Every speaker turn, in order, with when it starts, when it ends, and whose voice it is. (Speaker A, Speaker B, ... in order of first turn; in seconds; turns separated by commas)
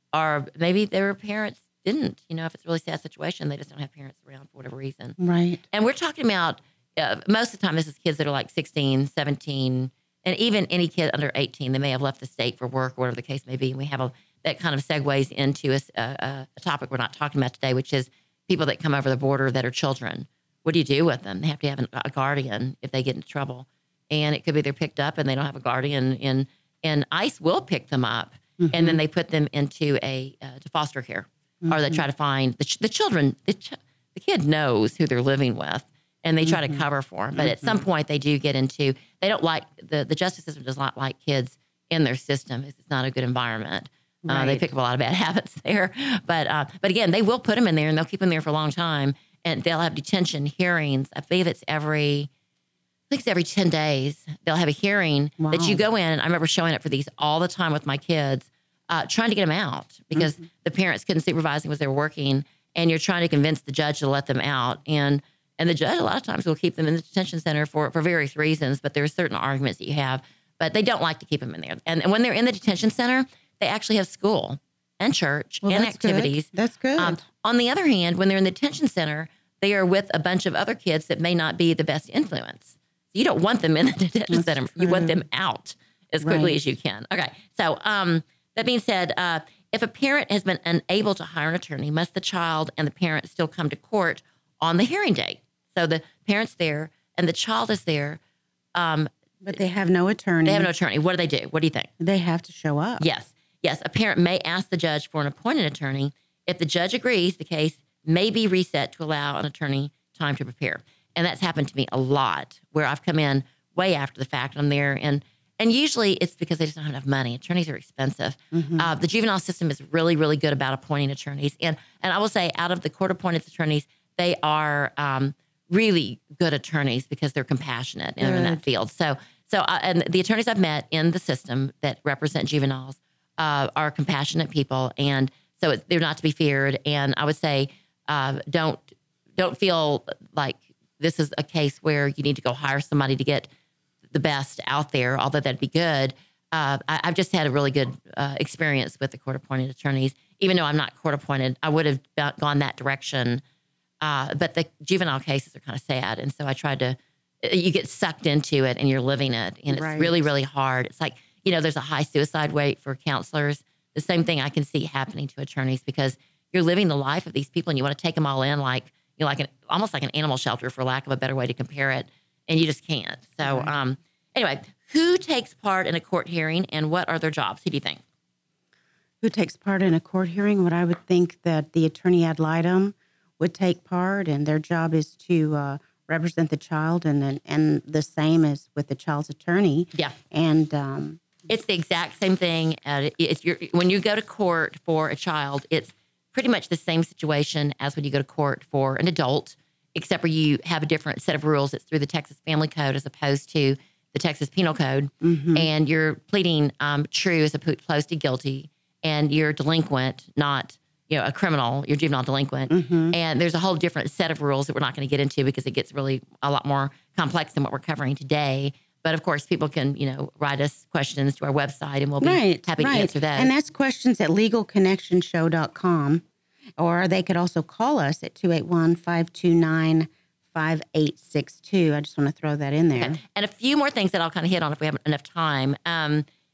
Speaker A: 0.1-5.2, Speaker B: 5.2-5.6, Speaker A: 5.7-52.3, Speaker B: 28.6-29.0, Speaker B: 31.6-32.0, Speaker B: 36.4-36.8, Speaker B: 37.4-37.8, Speaker B: 44.2-44.7, Speaker A: 53.1-98.2, Speaker B: 55.4-55.8, Speaker B: 75.7-77.2, Speaker B: 84.3-85.2, Speaker B: 86.2-86.6, Speaker A: 98.8-99.5, Speaker B: 99.4-100.7, Speaker A: 100.5-101.9, Speaker B: 102.0-103.0, Speaker A: 103.0-143.5, Speaker B: 118.5-118.9, Speaker B: 128.2-128.6, Speaker A: 144.1-153.4, Speaker A: 154.0-178.0, Speaker B: 159.7-160.2, Speaker B: 173.4-173.7, Speaker B: 179.2-191.2, Speaker A: 191.5-223.5, Speaker B: 205.2-205.7, Speaker B: 212.7-213.2, Speaker B: 222.2-226.2, Speaker B: 226.8-233.2, Speaker A: 232.9-236.3